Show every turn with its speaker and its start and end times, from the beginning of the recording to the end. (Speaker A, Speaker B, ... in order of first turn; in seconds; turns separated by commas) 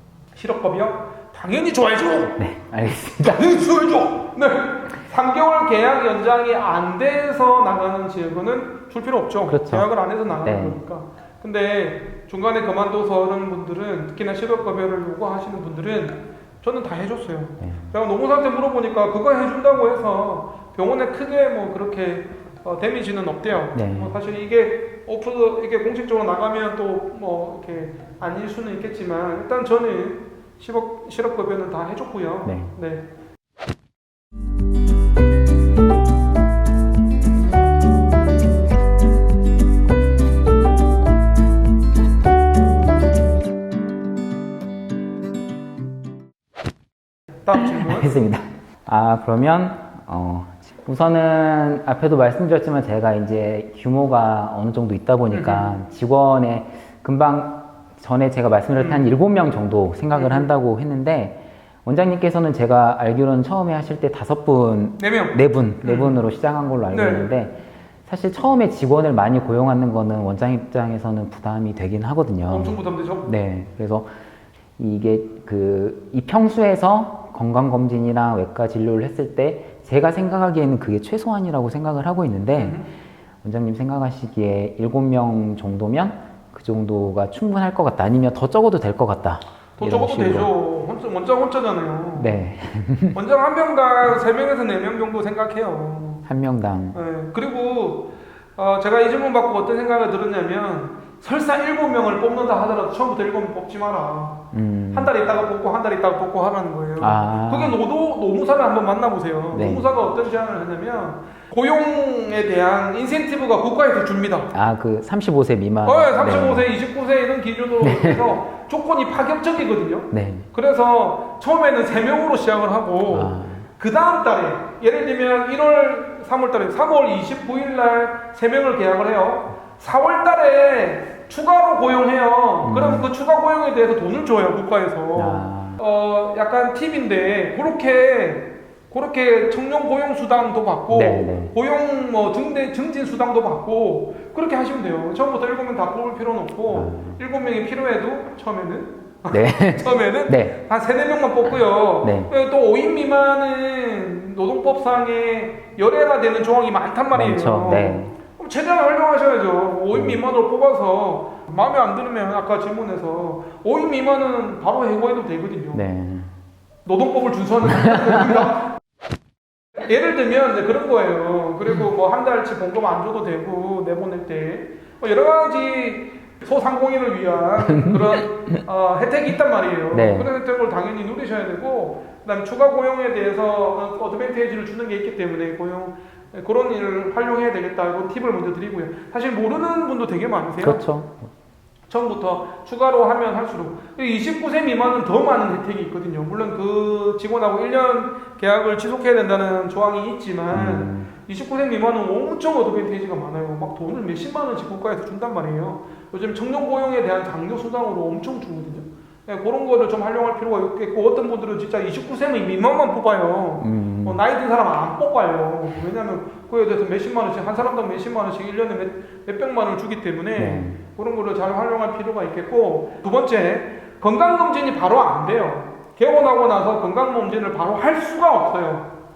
Speaker A: 0.3-2.4, Speaker B: 2.4-3.5, Speaker A: 3.2-33.1, Speaker B: 9.5-9.9, Speaker B: 10.4-10.8, Speaker B: 17.6-17.9, Speaker B: 23.7-24.2, Speaker B: 32.5-32.7, Speaker A: 47.5-48.2, Speaker B: 47.6-74.1, Speaker A: 55.3-55.9, Speaker A: 58.8-59.1, Speaker A: 60.1-60.5, Speaker A: 65.0-66.2, Speaker A: 66.9-67.3, Speaker A: 72.5-73.3, Speaker B: 74.8-82.8, Speaker A: 82.6-82.9, Speaker B: 83.4-90.5, Speaker A: 89.8-92.4, Speaker B: 92.2-93.2, Speaker A: 93.1-96.3, Speaker B: 96.2-97.0, Speaker A: 96.9-114.5, Speaker B: 104.5-105.1, Speaker B: 107.0-107.8, Speaker B: 109.5-109.9, Speaker B: 114.5-116.7, Speaker A: 115.8-165.9, Speaker B: 117.8-118.2, Speaker B: 120.1-120.5, Speaker B: 123.1-123.7, Speaker B: 132.6-133.1, Speaker B: 135.2-135.8, Speaker B: 140.9-141.5, Speaker B: 146.7-147.2, Speaker B: 149.3-150.6, Speaker B: 152.0-152.3, Speaker B: 157.1-158.1, Speaker B: 159.9-160.2, Speaker B: 165.7-166.3, Speaker A: 166.8-168.8, Speaker B: 167.8-168.4, Speaker A: 169.8-190.9, Speaker B: 177.7-178.1, Speaker B: 179.9-180.3, Speaker B: 190.6-191.3, Speaker A: 191.9-228.9, Speaker B: 200.5-201.1, Speaker B: 213.6-214.2, Speaker B: 220.4-220.8